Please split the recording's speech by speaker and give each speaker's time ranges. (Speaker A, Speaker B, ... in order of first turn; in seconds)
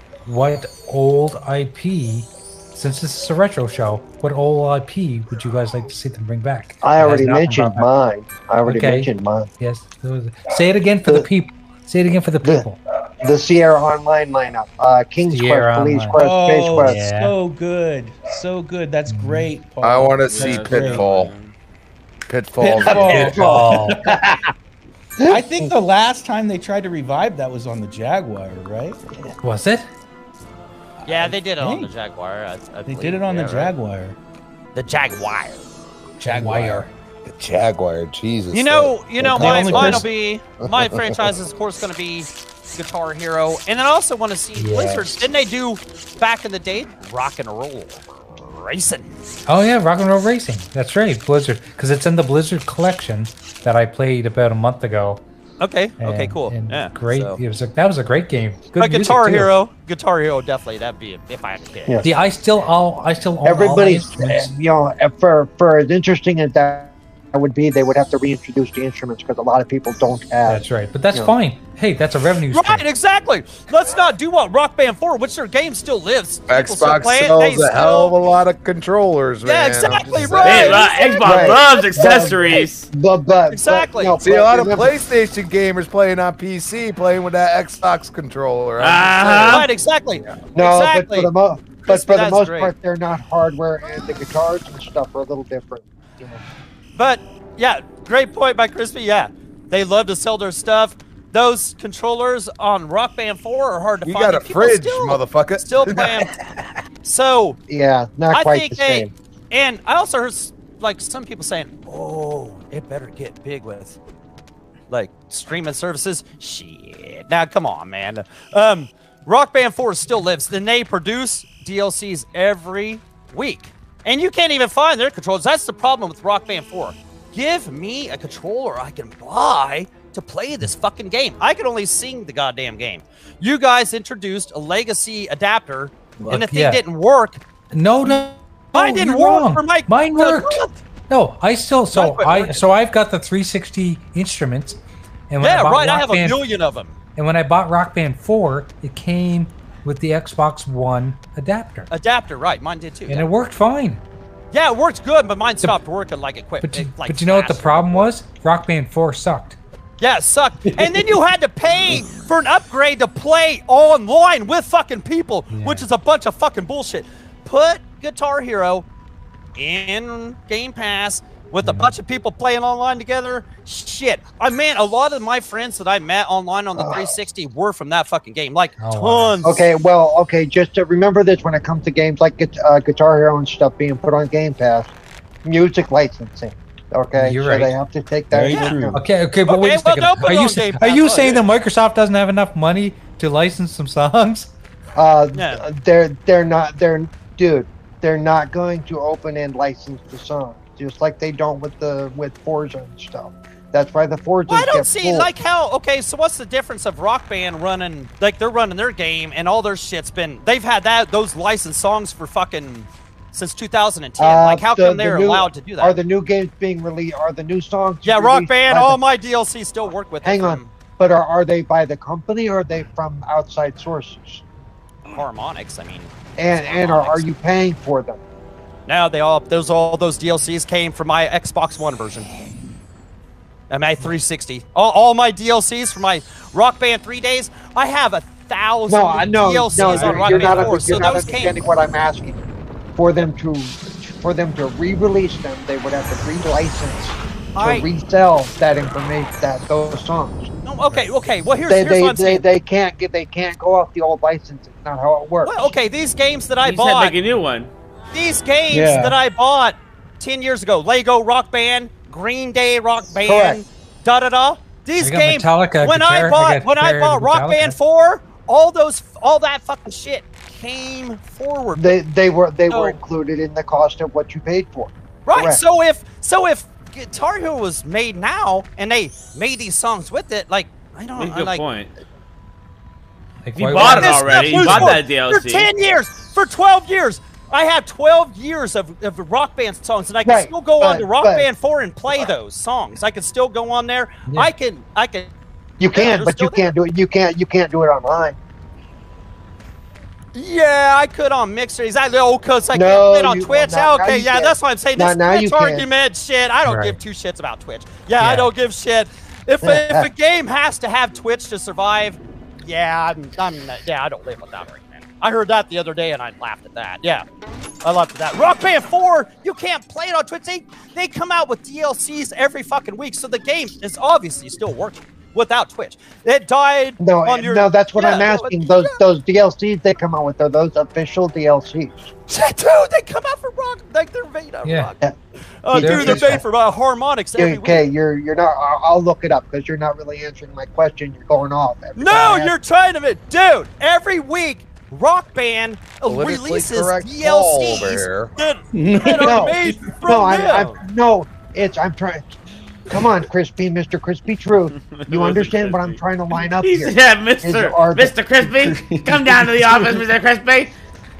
Speaker A: 0.2-7.9, 8.6-12.8, 15.3-16.2, 16.8-17.3, 19.1-19.5, 23.1-24.1, 29.4-29.9, 36.3-36.9, 44.5-45.2, 49.5-55.2, 56.0-59.5, 62.0-64.5, 70.5-72.8, 136.2-136.8, 137.7-144.8, 145.3-146.4, 147.2-151.9, 153.1-154.0, 156.6-159.6, 165.5-165.9, 171.6-171.9, 178.8-179.5, 187.1-187.7, 188.9-194.5, 239.8-240.9, 265.0-267.8, 283.4-285.0, 306.6-307.0, 308.2-308.5, 334.6-334.9, 335.7-336.4
Speaker B: 6.8-9.5, 13.2-17.0, 22.6-23.5, 63.4-70.6, 81.2-84.9, 90.5-96.4, 107.7-109.1, 176.8-177.1, 179.4-184.9, 185.4-189.0, 194.9-205.3, 214.2-219.0, 220.2-224.4, 226.4-228.2, 238.9-242.4, 243.0-250.5, 251.7-255.7, 263.2-263.6, 271.8-275.6, 290.2-291.5, 295.8-298.4, 302.7-305.9, 309.6-310.1, 327.0-332.1, 335.7-336.4, 337.4-342.5, 349.2-352.3, 352.9-358.4
Speaker C: 16.2-21.3, 22.6-24.1, 25.3-29.0, 31.0-31.9, 32.9-34.2, 36.2-36.9, 39.4-40.1, 160.6-161.0, 188.3-189.0, 258.7-259.2, 348.7-350.0, 358.6-360.1
Speaker D: 19.8-21.3, 22.3-23.6, 37.3-40.1, 40.6-41.2, 76.5-80.8, 84.2-89.7, 104.0-106.3, 346.1-348.3
Speaker E: 20.3-21.5, 80.4-82.9, 88.8-89.7, 256.6-257.7, 281.2-281.9, 283.5-285.7, 355.1-360.7
Speaker F: 31.1-33.7, 34.7-35.6, 38.5-49.1, 55.6-57.4, 58.8-62.0, 72.5-78.1, 79.4-82.6, 83.5-84.2, 89.5-91.3, 91.8-92.7, 97.0-106.3, 107.0-107.6, 108.3-114.0, 114.9-137.4, 138.7-140.8, 141.9-142.6, 145.4-147.0, 151.9-153.3, 154.5-158.1, 160.0-168.8, 169.6-179.6, 189.4-191.4, 195.3-195.6, 204.5-216.0, 218.0-220.7, 225.1-227.3, 228.8-232.3, 233.7-241.6, 247.6-247.9, 250.6-252.4, 255.4-257.2, 258.1-272.0, 272.7-273.0, 275.2-281.6, 283.7-295.3, 295.9-296.7, 300.3-317.2, 317.8-329.0, 332.3-335.0, 335.6-337.9, 341.9-350.8